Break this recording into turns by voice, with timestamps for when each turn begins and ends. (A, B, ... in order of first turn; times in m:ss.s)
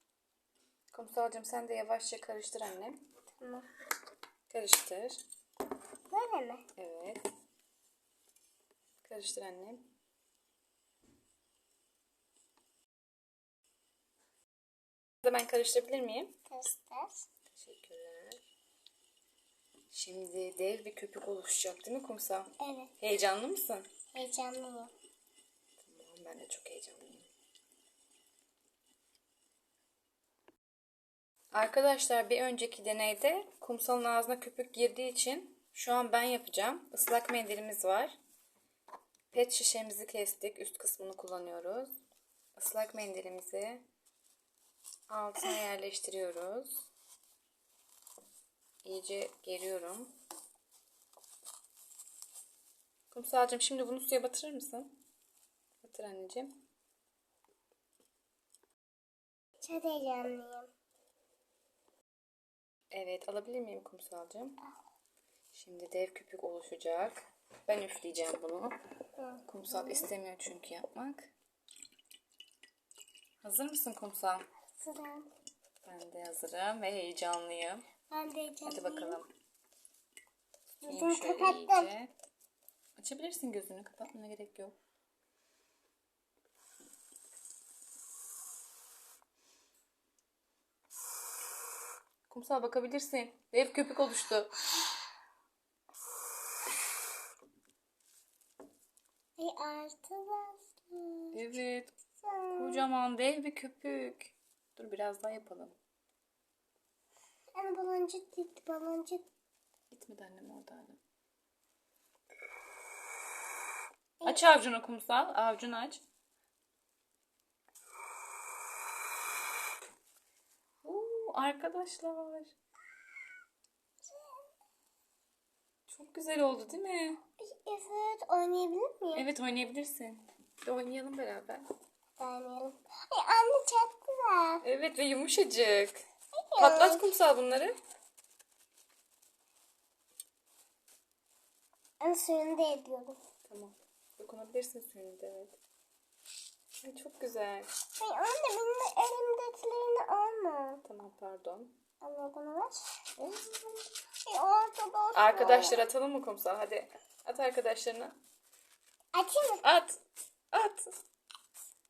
0:00.9-0:03.0 A
0:03.4-0:03.7 B
0:04.5-0:05.2 A
0:06.1-0:06.6 B
0:06.8-0:07.2 A
0:09.0-0:09.8 A
0:15.2-0:16.3 A
0:16.5-0:17.2 B
0:17.5-0:18.4 A
0:19.9-0:22.5 A
0:22.6-0:22.9 B
0:23.0-0:23.8 A
0:24.1-0:24.9 B
0:25.8-0:27.3 A
0:31.5-0:38.1 A
0:39.3-0:41.9 A
0:42.6-0:43.8 A
0:45.1-0:46.8 A
0:48.8-0:50.1 A
0:53.1-0:54.9 A
0:55.8-0:56.5 A
0:59.6-1:00.7 B
1:02.9-1:04.6 A
1:05.5-1:08.7 A
1:09.2-1:10.1 B
1:09.5-1:11.3 A
1:13.4-1:14.4 A
1:14.8-1:15.3 B
1:15.8-1:17.8 A
1:18.1-1:19.2 B
1:18.6-1:19.3 A
1:20.8-1:21.9 B
1:20.8-1:22.1 A
1:23.0-1:24.7 A
1:32.3-1:34.5 A
1:39.4-1:41.4 B
1:41.3-1:41.9 A
1:42.2-1:42.8 B
1:42.5-1:45.8 A
1:47.6-1:49.2 B
1:49.9-1:51.0 A
1:54.2-1:54.5 B
1:54.2-1:56.0 A
2:00.8-2:02.5 A
2:05.9-2:07.2 A
2:07.4-2:09.3 B
2:09.1-2:11.6 A
2:12.2-2:14.6 B
2:14.6-2:16.0 A
2:16.4-2:17.0 B
2:16.6-2:17.8 A
2:22.0-2:23.2 B
2:23.5-2:25.6 A
2:26.8-2:27.7 A
2:28.0-2:30.8 B
2:30.8-2:31.7 A
2:32.0-2:32.8 B
2:33.2-2:33.7 A
2:34.2-2:35.8 B
2:35.1-2:38.2 A
2:39.1-2:39.6 B
2:39.6-2:40.0 A
2:40.5-2:40.9 A